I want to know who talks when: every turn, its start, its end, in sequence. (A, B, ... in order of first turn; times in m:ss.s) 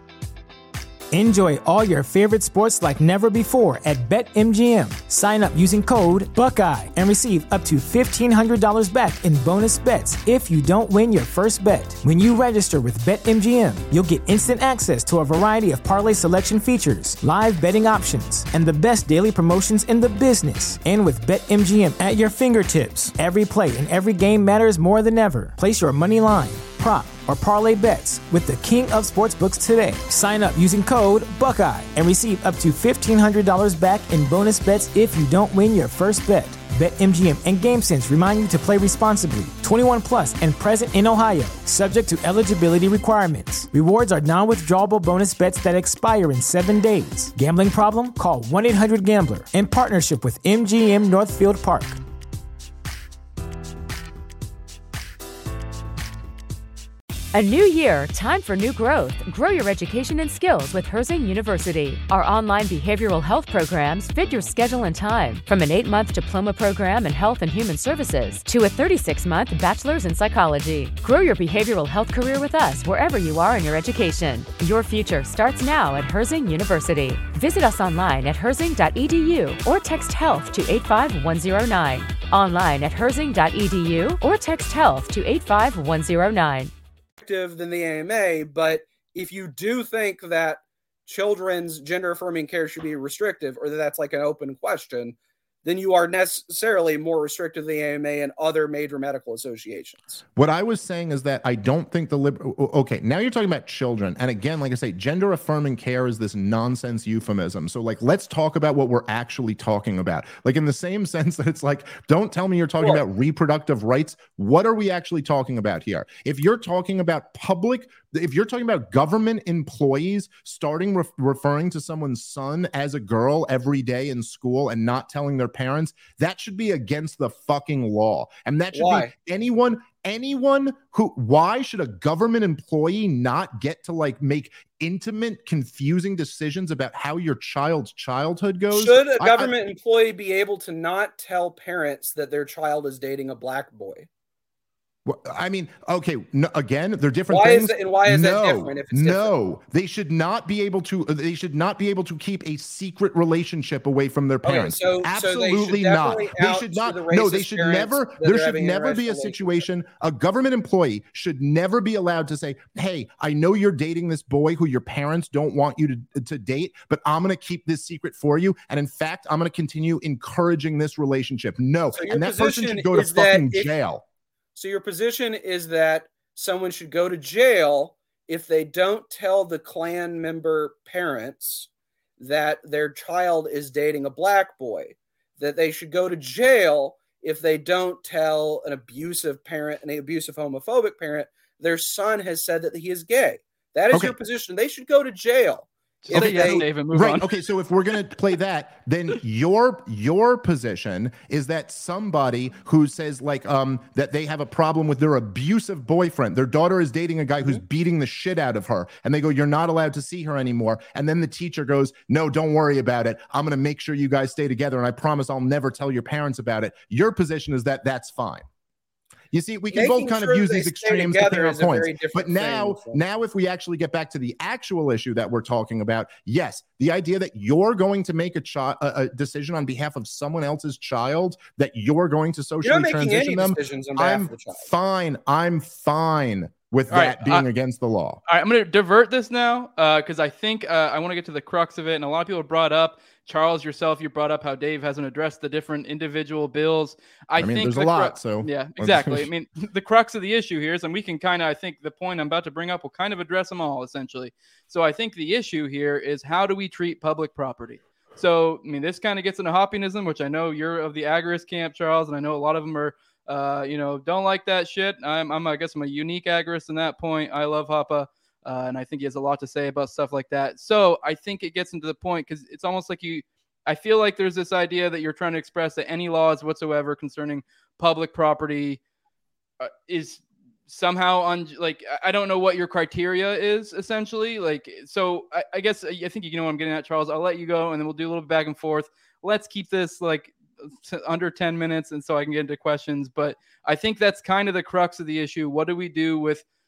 0:01.1-0:52.0 A
0:57.3-1:26.7 B
1:27.2-1:40.2 C
1:40.4-2:19.5 D
2:08.7-2:09.1 C
2:18.7-2:24.1 C
2:25.0-2:54.0 D
2:27.3-2:29.3 C
2:34.4-2:39.6 C
2:51.9-2:53.8 C
2:54.5-3:16.6 C
3:16.0-3:17.3 E
3:16.1-3:38.4 D
3:39.3-3:58.2 D
3:39.7-3:43.0 C
3:52.6-3:54.7 C
3:56.9-3:57.4 E
3:58.3-4:38.8 E
4:07.4-4:09.3 D
4:39.6-4:56.4 E